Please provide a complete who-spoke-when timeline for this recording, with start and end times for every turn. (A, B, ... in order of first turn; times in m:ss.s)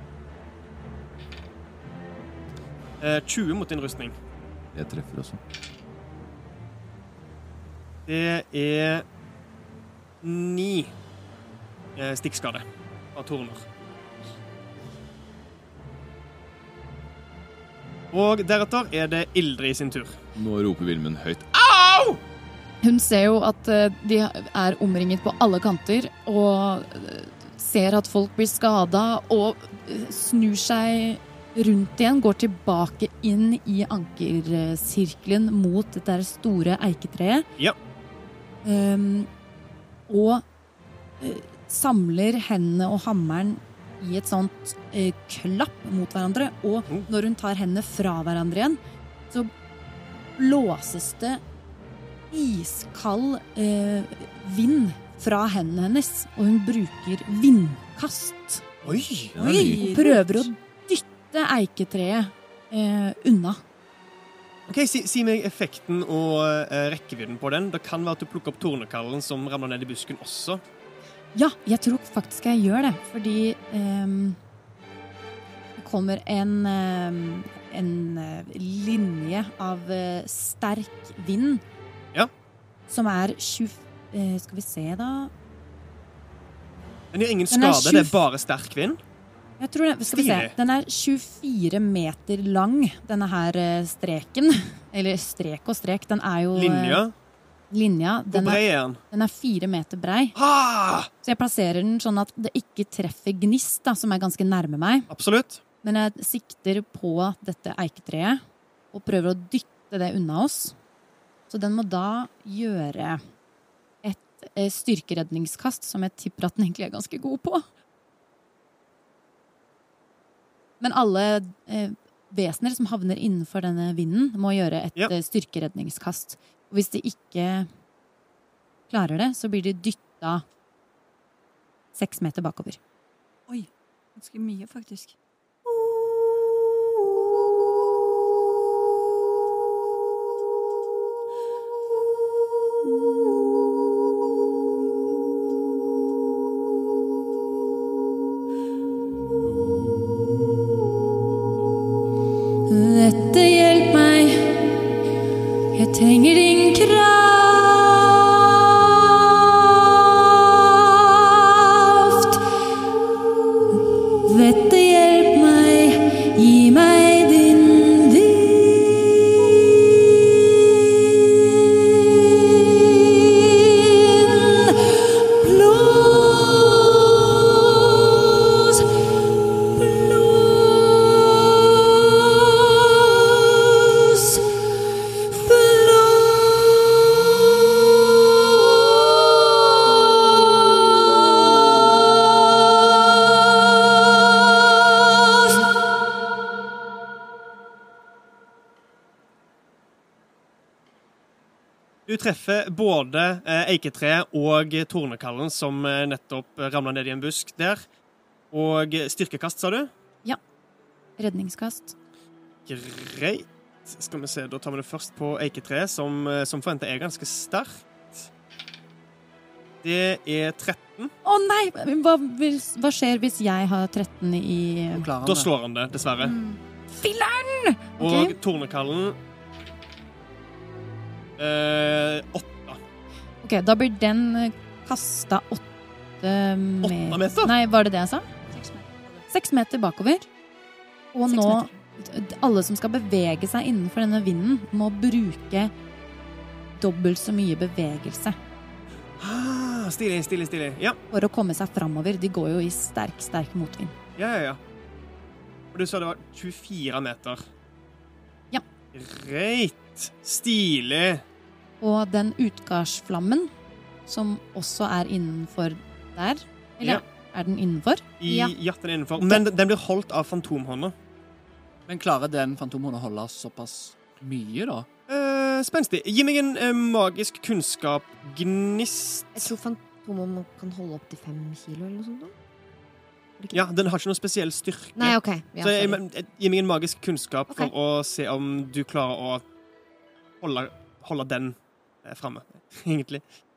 0:03.0-0:04.1 A
0:04.7-0:05.4 B
0:08.1-0:09.0 A
0:10.2-0:10.9 A
0:12.0-0:13.6 A
0:18.1-0:20.2 A
0:20.4-0:22.2 B
0:22.8-0:37.5 C
0:38.6-0:39.3 C
0:40.1-0:40.4 C
0:41.2-0:48.8 C
0:50.4-0:51.4 C
0:52.3-0:58.7 C
0:58.8-0:59.3 A
0:59.4-0:59.9 B
0:59.4-1:00.5 D
0:59.6-1:03.6 C
1:04.7-1:10.6 A
1:11.4-1:14.4 C
1:15.8-1:21.6 C
1:22.9-1:25.3 C
1:27.1-1:29.0 A
1:27.5-1:28.2 C
1:29.6-1:37.0 C
1:30.1-1:30.5 A
1:36.6-1:37.1 A
1:37.7-1:40.4 C
1:38.3-1:39.0 A
1:40.4-1:41.1 A
1:41.2-1:45.1 C
1:45.1-1:45.6 A
1:45.8-1:48.4 C
1:48.9-1:50.8 C
1:51.5-1:53.2 C
1:54.0-1:57.6 C
2:00.8-2:07.7 C
2:08.9-2:10.4 C
2:12.0-2:12.8 C
2:13.5-2:15.2 D
2:32.7-2:34.8 C
2:35.7-2:38.3 C
2:40.8-2:42.4 C
2:44.2-2:49.0 C
2:53.3-2:53.7 C
2:54.2-2:54.7 C
2:55.4-2:56.9 C
3:05.4-3:06.0 C
3:22.1-3:27.8 A
3:28.5-3:29.9 A
3:31.2-3:32.0 C
3:32.7-3:38.3 A
3:39.8-3:41.1 A
3:41.2-3:45.1 C
3:44.9-3:45.5 E
3:45.2-3:46.4 A
3:46.2-3:46.6 D
3:46.9-3:48.4 C
3:48.0-3:49.2 A
3:51.4-3:52.8 A
3:53.4-3:55.6 C
3:56.2-3:58.3 C
3:56.8-3:57.5 A
3:58.5-3:59.2 D
3:59.3-4:00.3 C
4:01.1-4:05.7 C
4:01.3-4:01.8 D
4:06.8-4:08.4 C
4:09.2-4:11.0 A
4:11.1-4:13.9 C
4:14.2-4:14.6 A
4:15.7-4:17.4 A
4:18.9-4:21.2 A
4:21.8-4:23.5 C
4:24.1-4:28.0 C
4:28.2-4:30.9 A
4:28.3-4:28.6 F
4:31.9-4:34.9 E
4:35.1-4:39.5 A
4:39.4-4:42.4 F
4:43.4-4:43.7 F
4:43.5-4:49.4 A
4:45.0-4:46.0 F
4:50.4-4:53.2 A